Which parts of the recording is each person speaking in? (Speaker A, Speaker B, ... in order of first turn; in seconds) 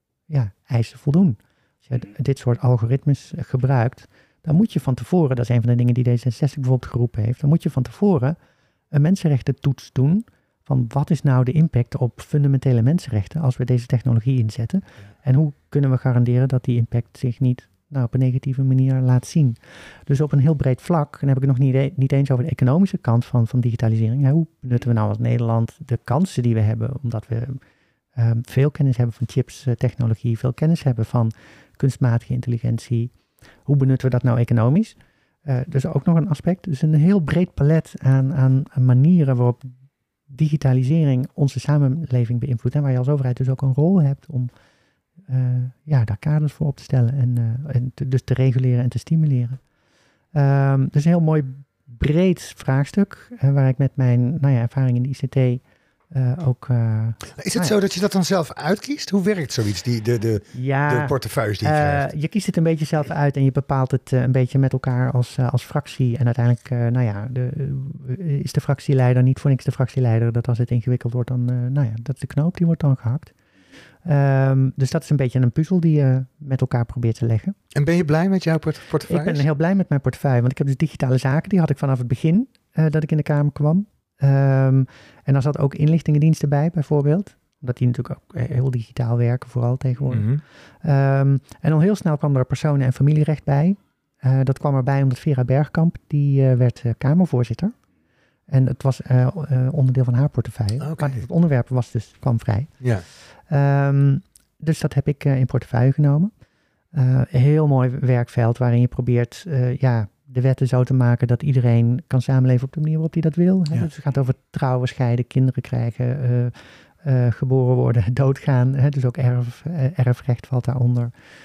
Speaker A: 0.3-8.4, 8.9-27.6, 28.1-33.1, 33.6-39.7, 40.3-44.5, 45.3-49.6, 50.3-57.8, 60.5-73.3, 74.0-77.5, 79.1-97.7, 98.5-106.3, 106.9-121.1
Speaker B: 57.4-62.1, 77.7-79.5, 90.1-90.4, 100.8-101.2